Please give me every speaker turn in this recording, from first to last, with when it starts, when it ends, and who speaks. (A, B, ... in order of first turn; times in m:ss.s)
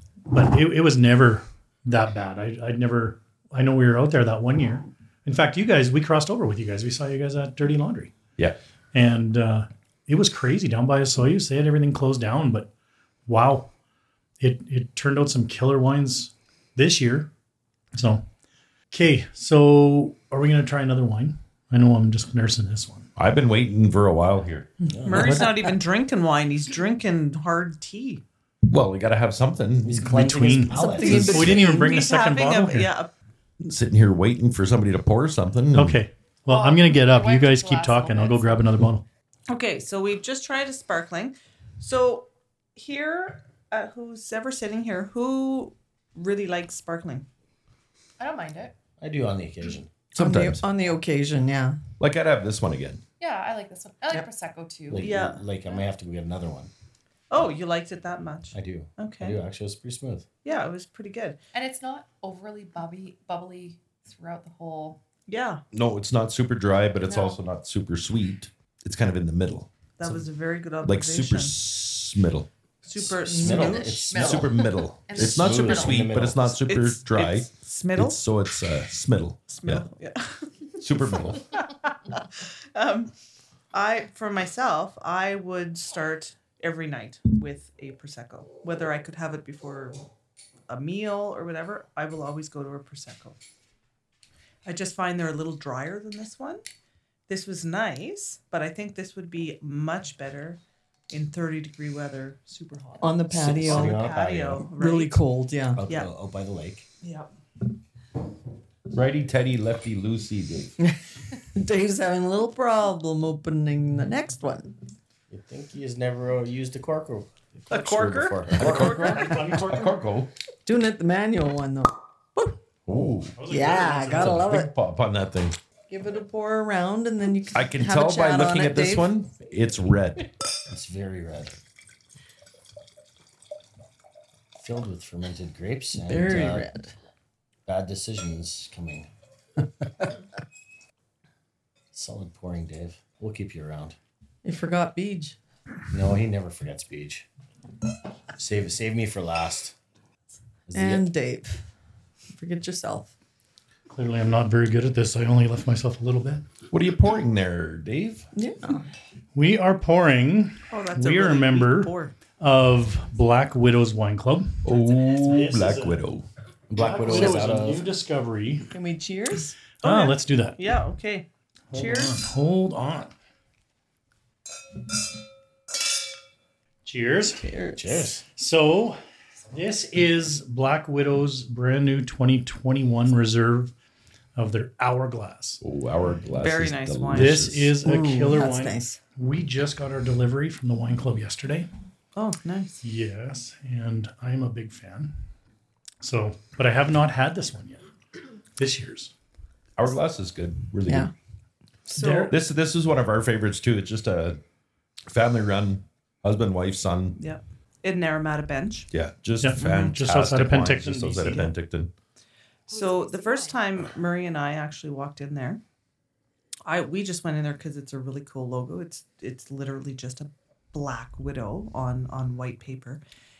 0:00.3-0:08.1 A
0:08.9-0:12.7 A
0:13.3-0:13.7 A
0:14.4-0:17.3 A
0:17.9-0:18.2 A
0:18.9-0:23.1 A
0:23.2-0:24.7 B
0:24.9-0:25.5 C
0:25.0-0:28.2 D
0:25.2-0:25.5 E
0:28.7-0:30.2 B
0:29.8-0:31.6 C
0:30.0-0:32.9 A
0:30.7-0:31.9 E
0:31.0-0:33.1 D
0:33.6-0:36.0 B
0:35.7-0:39.0 A
0:36.5-0:38.6 F
0:39.5-0:47.2 D
0:48.2-0:48.7 F
0:49.0-0:50.0 C
0:50.1-0:50.6 B
0:50.1-0:51.8 E
0:52.0-0:53.0 B
0:53.2-0:55.1 F
0:54.9-0:56.7 C
0:55.0-0:55.4 D
0:57.3-0:59.4 D
0:58.5-1:00.3 C
1:00.4-1:01.4 D
1:01.5-1:05.0 F
1:05.3-1:05.6 D
1:05.7-1:10.1 B
1:07.0-1:07.4 F
1:10.0-1:11.6 D
1:10.8-1:12.5 B
1:12.8-1:14.3 D
1:12.9-1:14.6 C
1:13.3-1:13.9 E
1:14.1-1:16.0 F
1:14.1-1:19.8 B
1:15.1-1:16.6 C
1:16.6-1:18.2 D
1:19.5-1:23.1 D
1:20.8-1:21.4 B
1:23.7-1:30.0 D
1:30.7-1:33.4 D
1:34.6-1:36.6 D
1:37.3-1:45.2 D
1:43.0-1:44.1 E
1:43.3-1:44.7 C
1:44.7-1:45.8 E
1:45.8-1:46.8 C
1:47.0-1:47.3 D
1:48.9-1:50.7 B
1:51.5-1:54.8 E
1:55.3-1:59.3 C
1:57.7-1:59.6 D
1:58.5-2:00.3 B
1:59.0-1:59.9 A
2:00.6-2:02.6 E
2:02.8-2:05.6 B
2:03.3-2:04.4 A
2:03.4-2:04.7 E
2:05.9-2:09.1 E
2:07.5-2:10.3 B
2:10.7-2:11.6 C
2:14.6-2:16.7 C
2:16.0-2:16.9 E
2:17.6-2:19.1 C
2:21.9-2:24.0 C
2:24.4-2:25.4 E
2:25.9-2:27.2 C
2:28.4-2:29.7 C
2:30.7-2:31.0 C
2:30.7-2:31.6 E
2:32.3-2:33.1 E
2:33.9-2:36.4 A
2:36.7-2:38.2 B
2:38.3-2:38.8 E
2:39.3-2:46.0 A
2:40.7-2:42.1 D
2:44.6-2:46.2 B
2:46.7-2:47.9 C
2:46.8-2:48.7 A
2:48.7-2:49.6 E
2:49.8-2:50.6 A
2:49.8-2:52.2 D
2:51.7-2:53.1 A
2:56.8-2:57.5 A
2:57.3-2:58.1 E
2:57.8-2:58.2 C
2:58.3-2:59.0 A
2:59.5-3:03.7 A
3:04.4-3:05.6 A
3:05.6-3:07.8 B
3:06.4-3:07.5 D
3:07.1-3:11.7 A
3:07.8-3:09.0 E
3:12.1-3:12.8 D
3:12.8-3:15.1 A
3:16.0-3:17.8 A
3:18.6-3:19.1 A
3:19.8-3:21.1 B
3:20.8-3:21.1 E
3:21.9-3:22.4 D
3:21.9-3:22.4 A
3:22.3-3:24.4 B
3:25.1-3:27.2 B
3:27.2-3:28.9 D
3:28.9-3:31.9 B
3:29.4-3:31.5 A
3:32.7-3:33.6 F
3:32.7-3:35.6 D
3:36.6-3:43.0 D